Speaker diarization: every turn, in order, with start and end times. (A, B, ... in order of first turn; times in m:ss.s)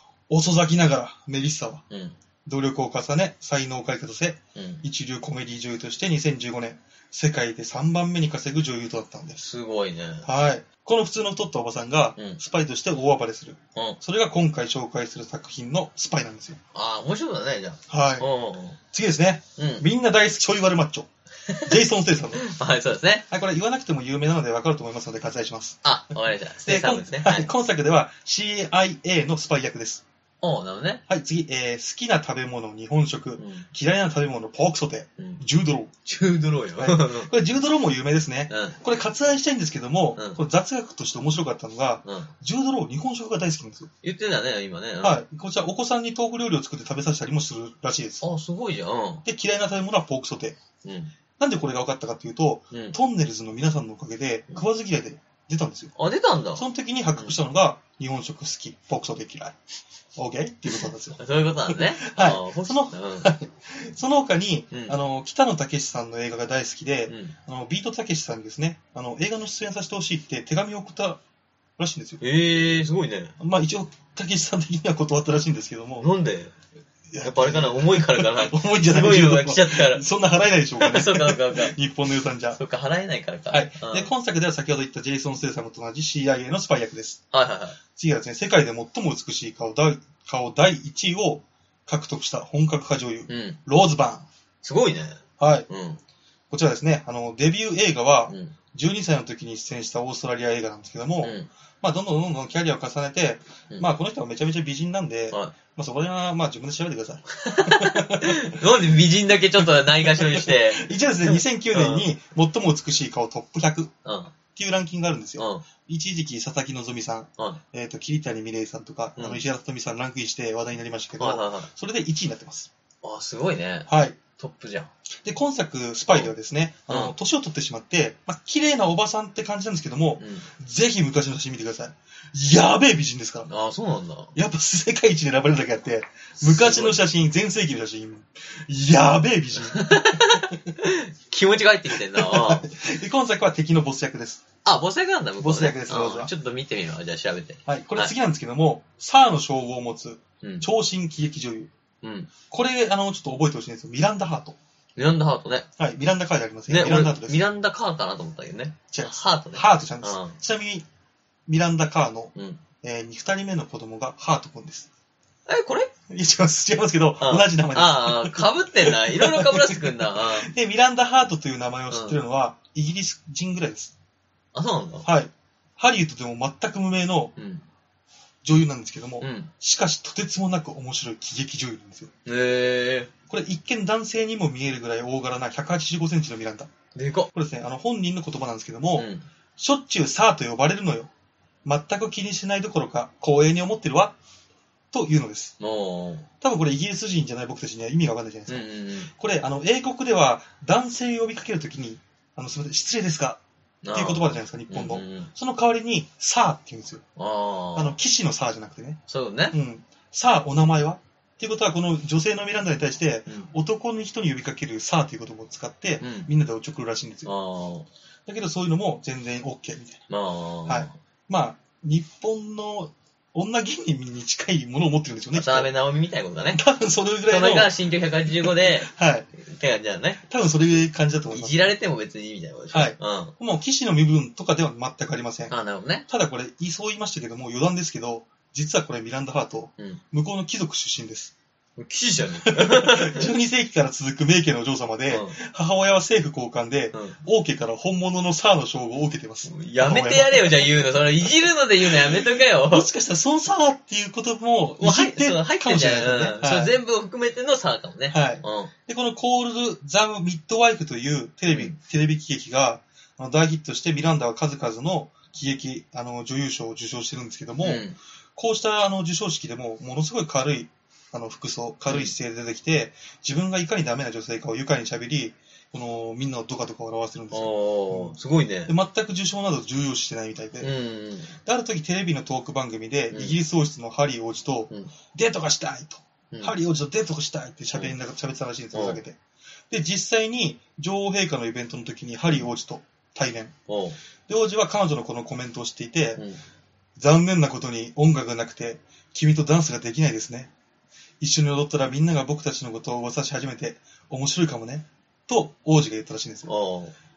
0:00.3-0:01.8 A
0:01.9-0:02.2 B
0:02.4-0:09.4 A
0:04.6-0:04.8 B
0:09.4-0:10.3 B
0:10.2-0:16.6 A
0:16.7-0:18.8 B
0:17.9-0:18.3 A
0:18.9-0:21.1 A
0:19.6-0:19.8 B
0:21.5-0:21.7 B
0:21.6-0:22.4 A
0:22.4-0:23.2 B
0:23.3-0:25.8 A
0:25.8-0:27.5 B
0:26.6-0:30.0 A
0:30.4-0:31.0 B
0:31.1-0:35.9 A
0:33.4-0:33.7 B
0:36.1-0:37.3 B
0:36.8-0:43.9 A
0:38.5-0:38.8 B
0:42.0-0:42.3 B
0:44.0-0:45.2 B
0:45.0-0:48.2 A
0:48.2-0:49.2 B
0:49.2-0:50.6 A
0:50.8-0:51.1 B
0:51.4-0:55.9 A
0:56.0-0:56.6 B
0:56.6-0:59.6 A
1:00.2-1:11.2 A
1:00.8-1:03.3 B
1:04.7-1:05.0 B
1:07.1-1:07.4 B
1:11.8-1:12.2 A
1:12.2-1:13.4 B
1:13.4-1:16.1 A
1:16.0-1:16.5 B
1:17.1-1:22.6 A
1:17.2-1:20.0 B
1:20.8-1:21.8 B
1:22.5-1:24.1 B
1:23.5-1:27.2 A
1:27.3-1:27.8 B
1:28.0-1:34.3 A
1:33.3-1:33.6 B
1:34.6-1:36.0 B
1:35.4-1:35.7 A
1:36.5-1:48.6 A
1:38.3-1:38.6 B
1:41.2-1:41.5 B
1:47.3-1:52.1 B
1:50.2-1:53.9 A
1:54.0-1:54.3 B
1:54.6-2:02.7 A
1:55.4-1:55.6 B
1:59.2-1:59.4 B
2:01.2-2:01.7 B
2:03.0-2:04.9 B
2:03.9-2:04.2 A
2:05.2-2:13.5 A
2:06.9-2:07.1 B
2:10.2-2:10.5 B
2:13.5-2:14.3 B
2:14.4-2:20.6 A
2:16.4-2:17.0 B
2:19.6-2:22.7 B
2:22.1-2:24.4 A
2:24.6-2:28.1 B
2:25.4-2:26.3 A
2:27.7-2:31.7 A
2:30.4-2:30.7 B
2:32.0-2:32.3 B
2:32.5-2:34.6 A
2:35.0-2:35.7 B
2:35.8-2:37.4 A
2:36.7-2:40.4 B
2:38.9-2:40.8 A
2:41.5-2:44.9 A
2:42.4-2:42.6 B
2:45.5-2:45.9 B
2:46.1-2:53.9 A
2:47.2-2:50.5 B
2:51.9-2:52.2 B
2:54.5-2:55.1 B
2:55.0-2:57.4 A
2:57.4-2:57.6 B
2:58.4-3:02.1 A
2:59.2-2:59.5 B
3:02.3-3:03.1 B
3:03.3-3:06.7 A
3:07.0-3:07.3 B
3:07.3-3:11.1 A
3:09.0-3:09.3 B
3:11.6-3:14.2 A
3:14.9-3:15.6 A
3:15.6-3:16.3 B
3:16.4-3:23.4 A
3:18.5-3:19.1 B
3:23.8-3:25.3 B
3:23.9-3:27.0 A
3:27.2-3:28.0 B
3:27.8-3:29.0 A
3:29.1-3:29.6 B
3:29.5-3:37.3 A
3:36.0-3:36.3 B
3:37.2-3:37.9 B
3:38.3-3:40.0 A
3:40.1-3:41.0 B
3:40.7-3:45.7 A
3:45.3-3:46.6 B
3:46.5-3:47.7 A
3:47.3-3:50.2 B
3:48.3-3:49.3 A
3:50.3-3:51.6 A
3:51.3-3:53.3 B
3:52.7-3:55.5 A
3:55.5-3:56.1 B
3:56.1-4:01.3 A
4:01.8-4:03.3 B
4:02.5-4:10.8 A
4:05.1-4:05.4 B
4:09.5-4:12.9 B
4:11.9-4:16.8 A
4:14.8-4:18.7 B
4:18.1-4:27.8 A
4:21.5-4:21.8 B
4:27.6-4:28.0 B
4:28.4-4:38.2 A
4:31.9-4:32.1 B
4:37.3-4:38.7 B
4:38.7-4:40.7 A
4:40.6-4:41.3 B
4:41.4-4:49.2 A
4:48.7-4:49.0 B
4:49.7-4:53.6 A
4:53.7-4:54.0 B
4:54.3-4:56.2 A
4:56.2-4:56.4 B
4:57.0-5:00.5 A
5:01.2-5:06.5 A
5:06.5-5:06.9 B